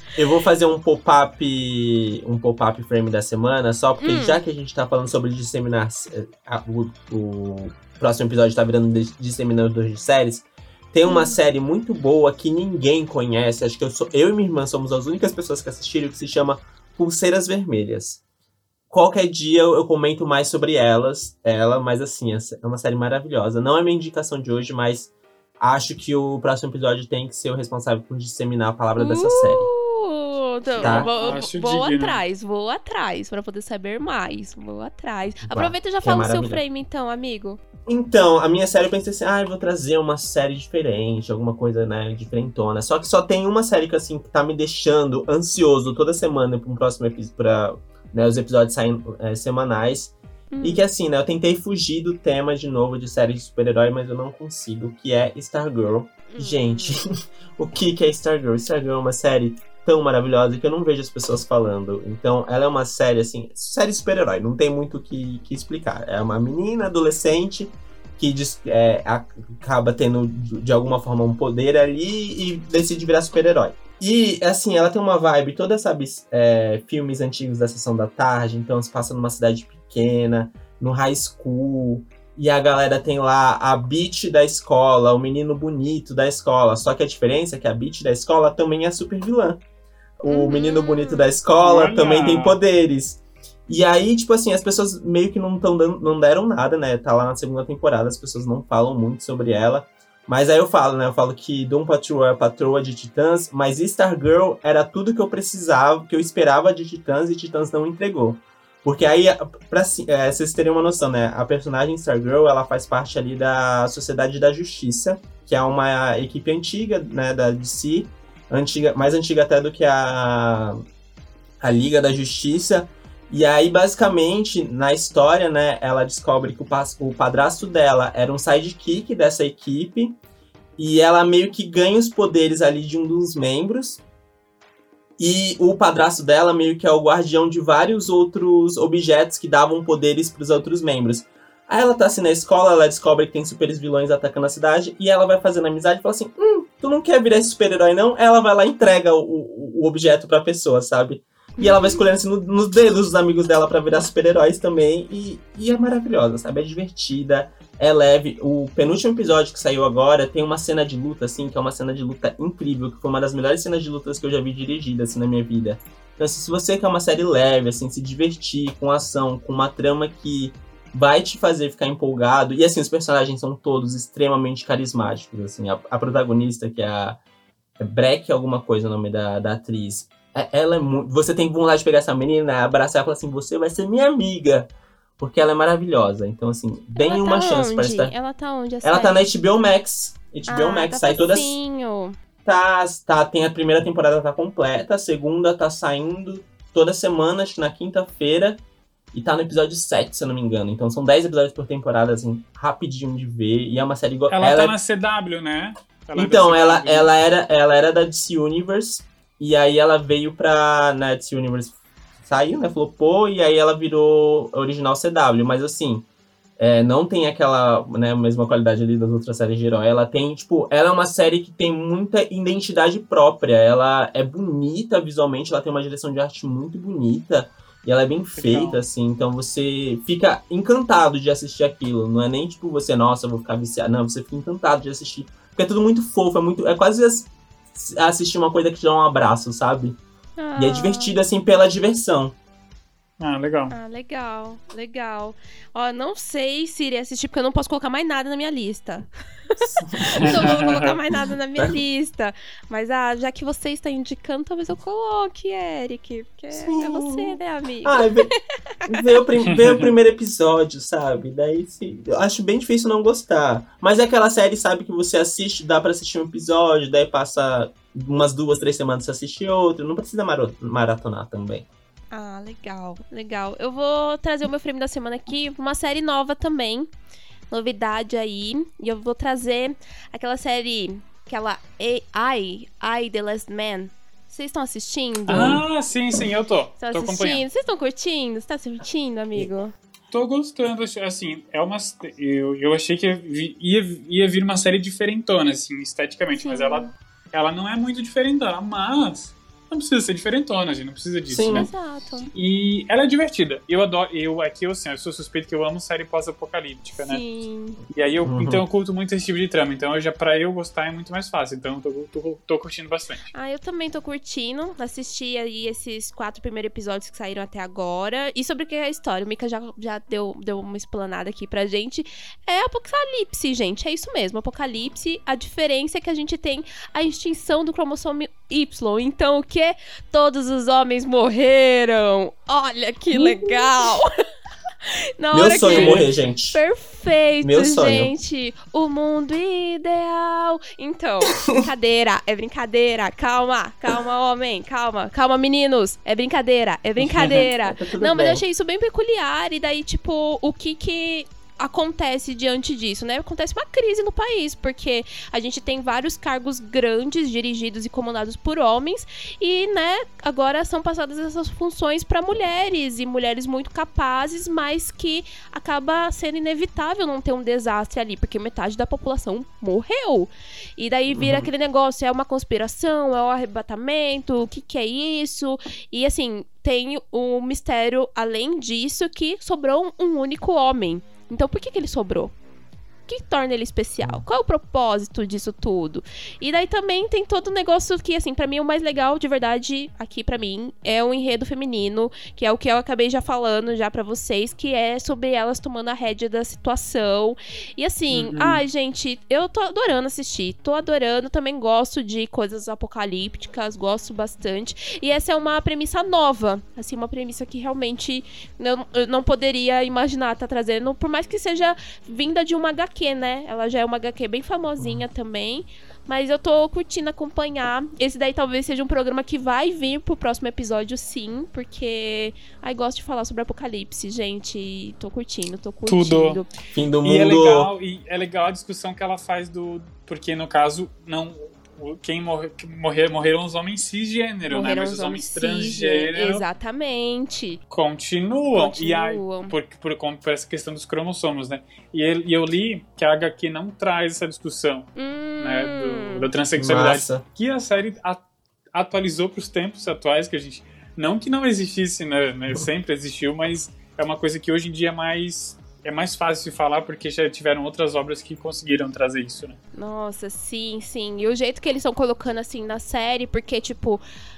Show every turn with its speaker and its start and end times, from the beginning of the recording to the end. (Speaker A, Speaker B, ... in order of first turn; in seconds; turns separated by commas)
Speaker A: 0.1-18.2, Speaker B: 4.0-4.4, Speaker B: 11.1-11.3, Speaker A: 18.9-29.7, Speaker B: 29.0-37.6, Speaker C: 30.8-32.2, Speaker A: 30.8-31.1, Speaker A: 35.5-36.6, Speaker A: 37.9-89.6, Speaker B: 50.5-50.8, Speaker B: 56.3-57.0, Speaker A: 90.2-120.8, Speaker B: 90.3-91.3, Speaker C: 91.6-92.6, Speaker A: 121.6-130.1, Speaker A: 130.8-134.0, Speaker A: 135.2-177.2, Speaker B: 151.6-152.0, Speaker A: 177.8-188.1, Speaker B: 186.9-189.2, Speaker A: 188.8-191.6, Speaker B: 190.5-192.2, Speaker A: 192.4-198.6, Speaker A: 199.1-204.7, Speaker C: 204.3-207.1, Speaker A: 206.2-216.1, Speaker A: 216.6-240.0, Speaker C: 228.3-228.8, Speaker B: 240.4-241.1, Speaker A: 240.6-242.3, Speaker C: 243.2-243.7, Speaker B: 243.7-258.4, Speaker A: 249.6-250.7, Speaker C: 250.0-250.9, Speaker A: 256.5-258.3, Speaker A: 258.9-271.6, Speaker C: 259.4-259.9, Speaker B: 272.1-276.9, Speaker B: 277.5-285.6, Speaker C: 285.3-287.4, Speaker A: 285.3-285.6, Speaker B: 286.8-289.7, Speaker C: 290.1-301.7, Speaker B: 296.4-296.9, Speaker A: 301.3-301.7, Speaker B: 301.5-302.3, Speaker C: 302.3-307.2, Speaker B: 307.0-307.8, Speaker C: 307.9-313.3, Speaker A: 308.2-308.6, Speaker B: 313.3-334.1, Speaker A: 333.1-333.7, Speaker B: 334.8-382.3, Speaker A: 335.3-336.6, Speaker C: 335.6-336.1, Speaker A: 337.4-338.1, Speaker C: 347.1-347.4, Speaker A: 347.3-348.4, Speaker A: 371.1-371.5, Speaker B: 383.1-426.5, Speaker C: 398.1-398.6, Speaker C: 425.9-426.4, Speaker A: 426.7-427.7, Speaker C: 427.0-436.4, Speaker B: 434.5-437.6, Speaker C: 437.7-459.6, Speaker B: 438.5-439.5, Speaker B: 444.9-446.3, Speaker A: 446.6-447.2, Speaker B: 459.7-464.0